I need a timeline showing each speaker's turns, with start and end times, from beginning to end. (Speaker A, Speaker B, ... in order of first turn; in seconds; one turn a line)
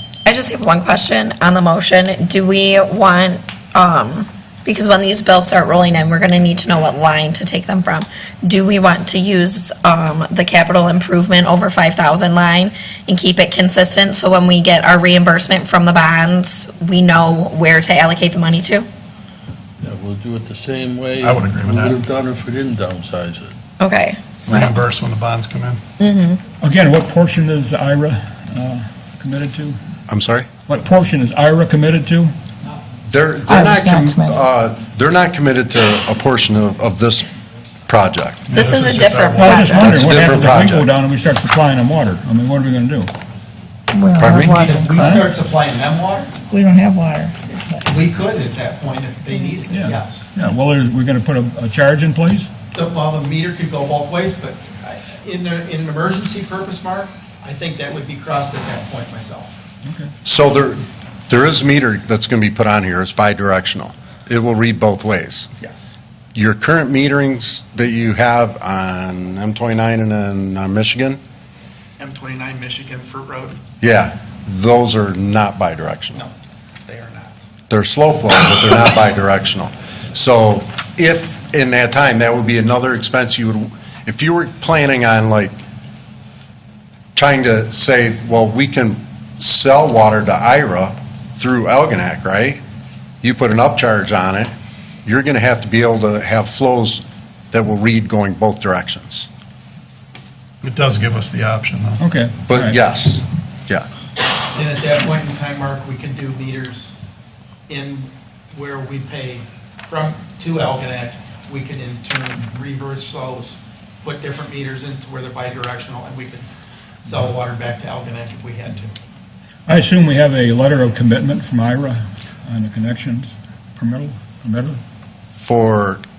Speaker A: 0.2-18.9
Speaker B: 19.8-23.5
Speaker C: 21.2-22.0
Speaker A: 23.8-24.6
Speaker C: 24.4-25.8
Speaker A: 26.0-26.4
Speaker D: 26.6-29.8
Speaker E: 30.1-30.5
Speaker D: 30.6-32.3
Speaker E: 33.0-37.3
Speaker F: 33.5-34.4
Speaker E: 37.9-38.5
Speaker C: 38.5-39.5
Speaker A: 38.5-40.0
Speaker D: 39.3-43.1
Speaker E: 39.7-40.9
Speaker F: 43.9-45.2
Speaker E: 44.2-44.6
Speaker G: 44.5-46.3
Speaker D: 45.0-45.2
Speaker F: 46.5-47.9
Speaker G: 47.8-50.3
Speaker D: 49.7-52.5
Speaker G: 52.7-59.6
Speaker D: 59.8-60.1
Speaker E: 60.2-65.5
Speaker G: 65.6-65.9
Speaker E: 66.3-71.2
Speaker G: 72.0-73.6
Speaker E: 73.8-76.2
Speaker G: 76.8-77.5
Speaker E: 77.7-85.6
Speaker E: 87.1-92.6
Speaker E: 93.2-94.5
Speaker E: 95.0-99.3
Speaker C: 100.6-102.0
Speaker D: 102.0-102.8
Speaker E: 102.5-103.9
Speaker G: 104.5-106.9
Speaker G: 107.7-116.5
Speaker G: 117.0-118.9
Speaker D: 119.7-124.8
Speaker E: 125.3-126.0